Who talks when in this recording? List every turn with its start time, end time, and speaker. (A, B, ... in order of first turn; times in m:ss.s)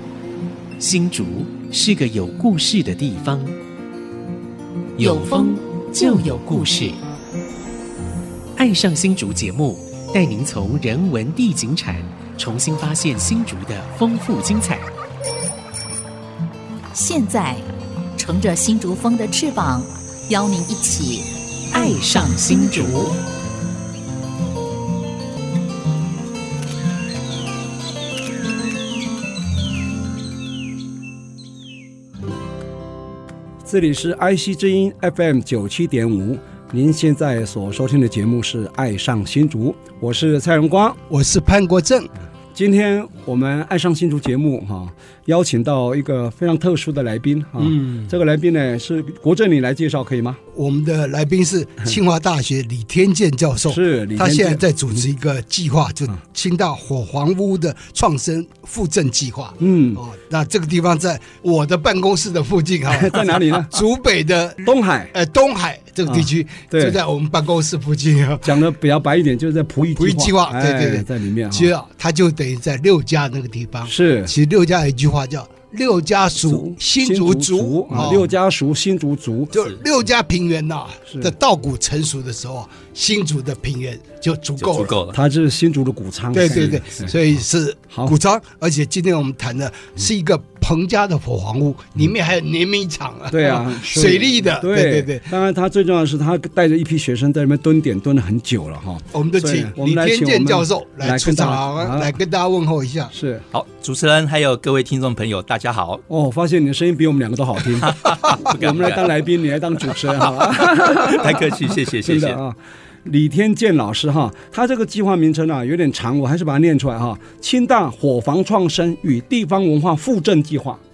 0:00.8-0:03.6 A
0:05.0-0:07.0 A
0:05.0-0:06.9 B
0:08.6-0:14.9 A
0:16.9-0:17.6 B
0:18.2-0:23.1 B
0:21.7-0:23.2 A
0:33.6-0:41.0 C
0:41.1-0:42.1 D
0:42.6-0:50.4 C
0:47.6-0:48.1 D
0:50.5-1:08.6 D
0:53.7-0:54.6 C
0:59.6-1:00.0 C
1:02.9-1:03.8 C
1:04.6-1:05.1 C
1:06.1-1:07.0 C
1:08.4-1:11.7 C
1:10.0-1:18.3 D
1:13.9-1:14.3 C
1:16.4-1:19.6 C
1:19.5-1:25.0 D
1:21.1-1:21.3 C
1:24.6-1:25.2 E
1:25.1-1:27.2 C
1:26.3-1:35.3 D
1:27.9-1:28.2 C
1:33.3-1:42.1 C
1:39.1-1:43.1 D
1:43.1-1:43.4 C
1:43.5-1:46.0 E
1:46.1-2:00.8 C
1:47.8-1:49.1 E
1:49.9-1:52.4 E